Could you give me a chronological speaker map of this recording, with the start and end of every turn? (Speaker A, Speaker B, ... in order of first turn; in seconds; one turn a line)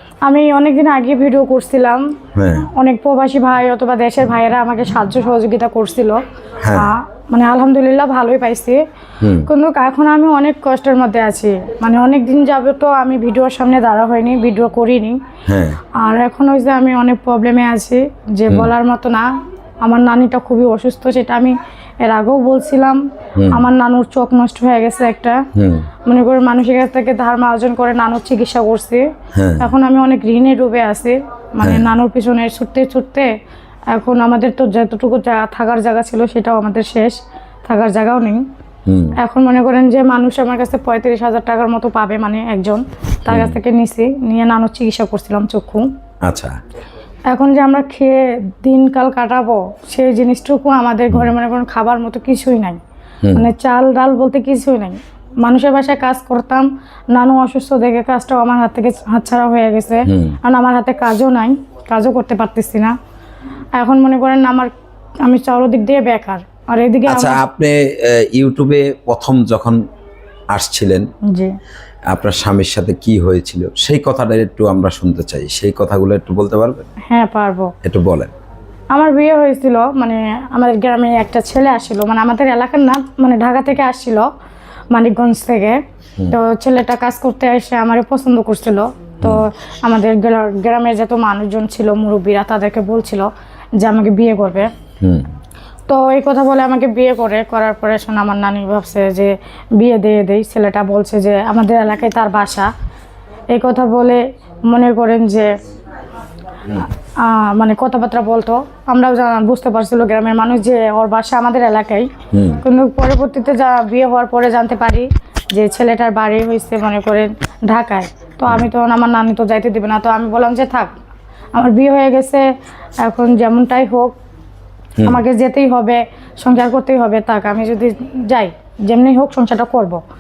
Speaker A: 0.2-2.0
Speaker B: 2.4-2.7
Speaker A: 2.6-6.2
Speaker B: 6.6-6.9
Speaker A: 6.7-8.8
Speaker B: 9.2-9.5
Speaker A: 9.5-15.2
Speaker B: 15.5-15.8
Speaker A: 15.8-19.3
Speaker A: 19.8-23.0
Speaker B: 23.4-23.6
Speaker A: 23.5-25.4
Speaker B: 25.6-25.9
Speaker A: 26.1-29.1
Speaker B: 29.4-29.7
Speaker A: 29.6-33.3
Speaker B: 31.6-31.9
Speaker A: 33.9-38.4
Speaker B: 38.9-39.1
Speaker A: 39.2-45.9
Speaker B: 43.3-43.6
Speaker B: 46.3-46.5
Speaker A: 47.3-52.8
Speaker A: 53.3-63.0
Speaker B: 60.1-60.4
Speaker A: 63.8-67.4
Speaker B: 67.1-69.8
Speaker B: 70.5-71.0
Speaker A: 71.3-71.5
Speaker B: 72.1-76.9
Speaker A: 77.1-77.7
Speaker B: 77.8-78.3
Speaker A: 78.9-84.3
Speaker A: 84.9-85.8
Speaker A: 86.3-93.3
Speaker A: 93.8-94.7
Speaker B: 95.0-95.3
Speaker A: 95.9-102.7
Speaker A: 103.5-105.5
Speaker A: 107.0-112.1
Speaker B: 112.3-112.6
Speaker A: 112.6-120.9
Speaker A: 121.5-122.5
Speaker A: 123.0-124.2
Speaker A: 125.0-130.0